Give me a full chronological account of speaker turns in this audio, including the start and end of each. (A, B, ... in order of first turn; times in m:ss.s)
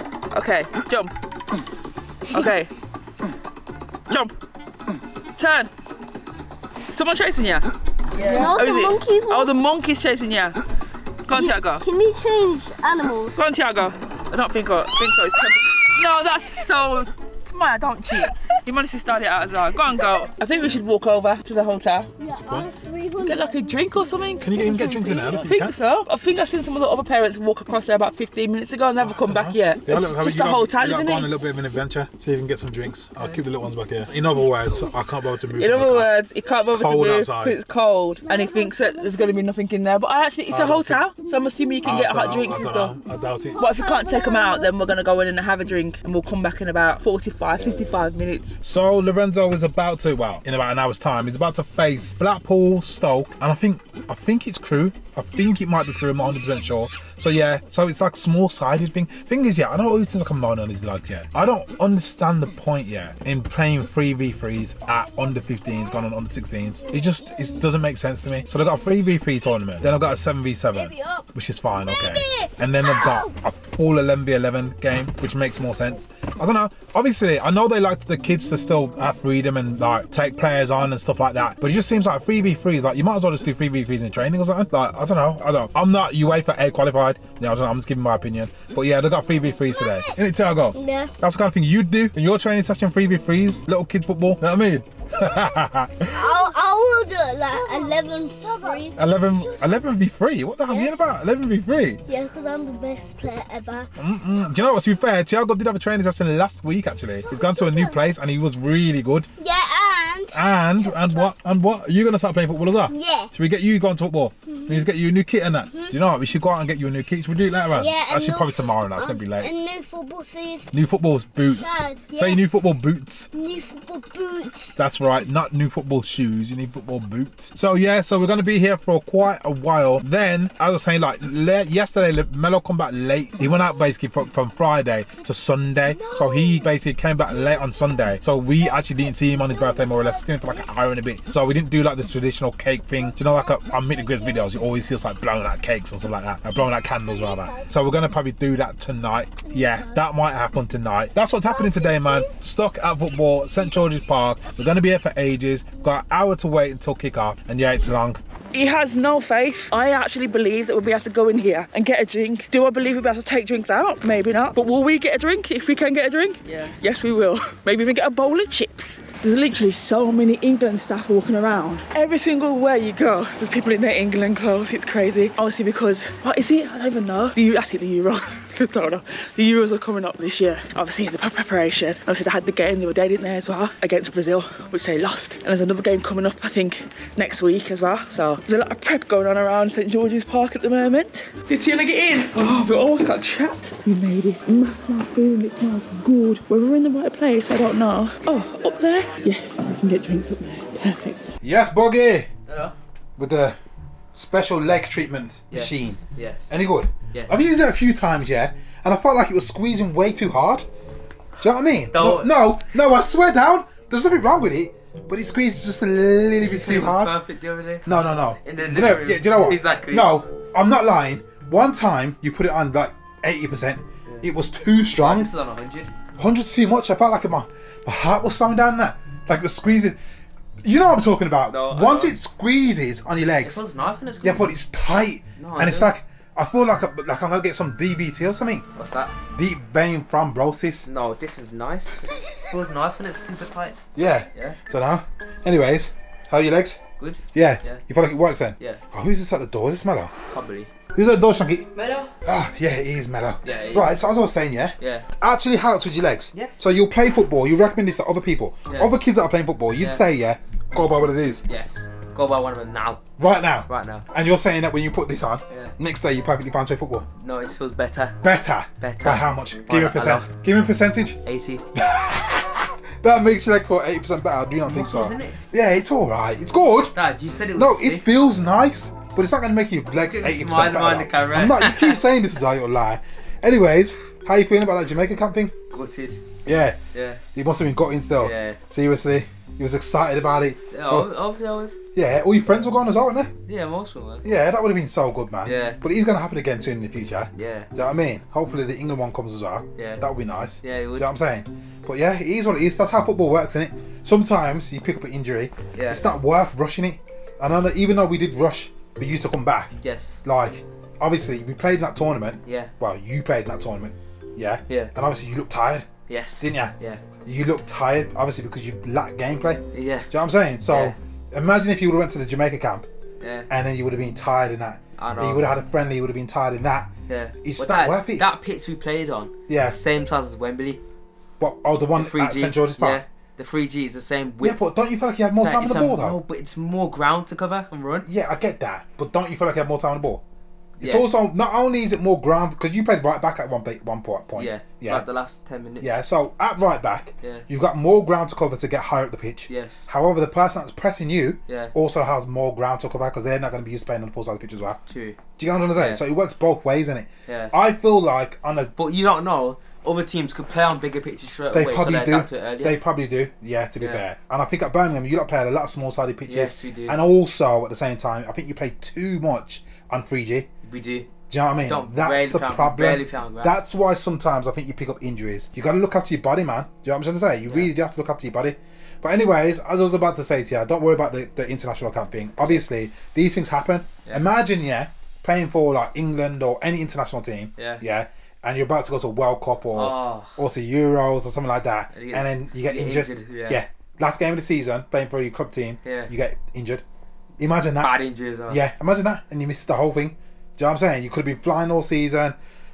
0:00.3-0:01.1 A
0:02.3-0:02.7 A
0:05.4-0:05.7 A
0:06.9-0:10.6 A
0:08.2-0:09.6 B
0:11.2-0:11.8 A
0:11.3-0:13.5 B
0:13.4-0:22.1 A
0:22.2-0:24.1 B
0:22.3-0:22.7 C
0:23.2-0:31.3 A
0:24.4-0:25.8 C
0:29.0-0:36.1 C
0:35.6-0:42.9 A
0:36.6-0:37.6 C
0:38.3-0:39.3 B
0:40.5-0:41.0 C
0:41.8-0:43.6 C
0:43.5-0:44.7 B
0:43.5-0:48.6 A
0:48.6-1:36.4 C
1:10.7-1:11.2 B
1:11.8-1:13.3 B
1:29.7-1:30.2 B
1:30.7-1:31.1 B
1:36.1-1:39.6 B
1:39.0-1:42.0 C
1:40.7-1:41.2 B
1:42.1-1:43.9 B
1:44.0-1:49.3 C
1:47.3-1:48.0 B
1:49.4-1:51.3 B
1:50.3-1:59.5 C
1:52.9-1:53.3 B
1:54.5-1:54.8 B
1:57.8-2:00.7 B
2:00.7-2:03.3 C
2:01.6-2:02.4 B
2:03.3-2:04.7 B
2:04.7-2:38.2 C
2:16.1-2:16.6 B
2:38.5-3:21.3 A
3:21.4-3:22.3 C
3:22.5-3:22.7 D
3:23.2-3:23.6 C
3:24.1-3:30.6 C
3:25.5-3:26.5 D
3:27.1-3:27.4 D
3:31.4-3:37.1 C
3:31.9-3:32.3 D
3:36.4-3:37.9 D
3:37.8-3:45.3 C
3:38.4-3:40.1 D
3:45.0-3:45.9 D
3:46.2-3:50.0 C
3:50.6-3:53.6 C
3:51.5-3:52.1 D
3:53.4-3:54.5 D
3:54.2-3:58.6 C
3:55.4-3:55.9 D
3:58.7-3:59.1 D
3:59.3-4:00.9 C
4:00.8-4:03.8 D
4:03.9-4:06.8 C
4:07.0-4:07.8 D
4:07.3-4:10.1 C
4:10.3-4:10.7 D
4:10.9-4:11.7 C
4:11.7-4:12.1 A
4:12.2-4:21.4 C
4:13.4-4:14.0 D
4:14.8-4:15.0 D
4:16.3-4:16.6 D
4:20.8-4:23.0 D
4:23.2-4:27.0 C
4:23.7-4:24.0 D
4:27.2-4:28.2 D
4:28.2-4:31.2 C
4:28.8-4:30.3 D
4:31.2-4:31.6 D
4:31.7-4:36.9 C
4:34.6-4:35.4 D
4:36.9-4:38.0 D
4:37.5-4:45.6 C
4:40.0-4:42.0 D
4:45.7-4:46.2 D
4:46.4-4:46.8 C
4:46.9-4:47.2 D
4:47.3-4:51.1 C
4:48.2-4:48.6 D
4:50.7-4:51.8 D
4:51.9-4:53.3 C
4:53.4-4:54.2 D
4:54.2-5:16.7 C
4:55.4-4:55.8 D
4:57.3-4:57.7 D
4:59.8-5:00.0 D
5:00.6-5:01.1 D
5:05.7-5:06.2 D
5:09.8-5:10.2 D
5:12.4-5:12.7 D
5:16.1-5:17.0 D
5:17.2-5:22.9 C
5:19.7-5:20.1 D
5:20.7-5:21.0 D
5:23.2-5:23.5 D
5:23.5-5:28.3 C
5:25.0-5:25.5 D
5:27.1-5:30.8 D
5:29.5-5:29.8 C
5:31.4-5:33.0 C
5:32.0-5:34.6 D
5:34.4-5:36.2 C
5:35.4-5:38.1 D
5:38.0-5:40.2 C
5:40.8-5:41.0 D
5:40.8-5:45.0 C
5:44.4-5:45.9 D
5:45.8-5:54.8 C
5:49.5-5:49.9 D
5:51.5-5:51.7 D
5:54.9-5:55.2 D
5:55.4-5:58.7 C
5:55.8-5:56.0 D
5:57.3-5:57.5 D
5:58.8-6:02.8 D
6:01.5-6:10.5 C
6:06.3-6:07.0 D
6:10.6-6:11.1 D
6:11.3-6:36.8 C
6:11.7-6:13.6 D
6:27.6-6:27.8 D
6:29.7-6:30.3 D
6:31.9-6:33.6 D
6:35.8-6:36.1 D
6:37.4-6:42.4 C
6:37.8-6:38.6 D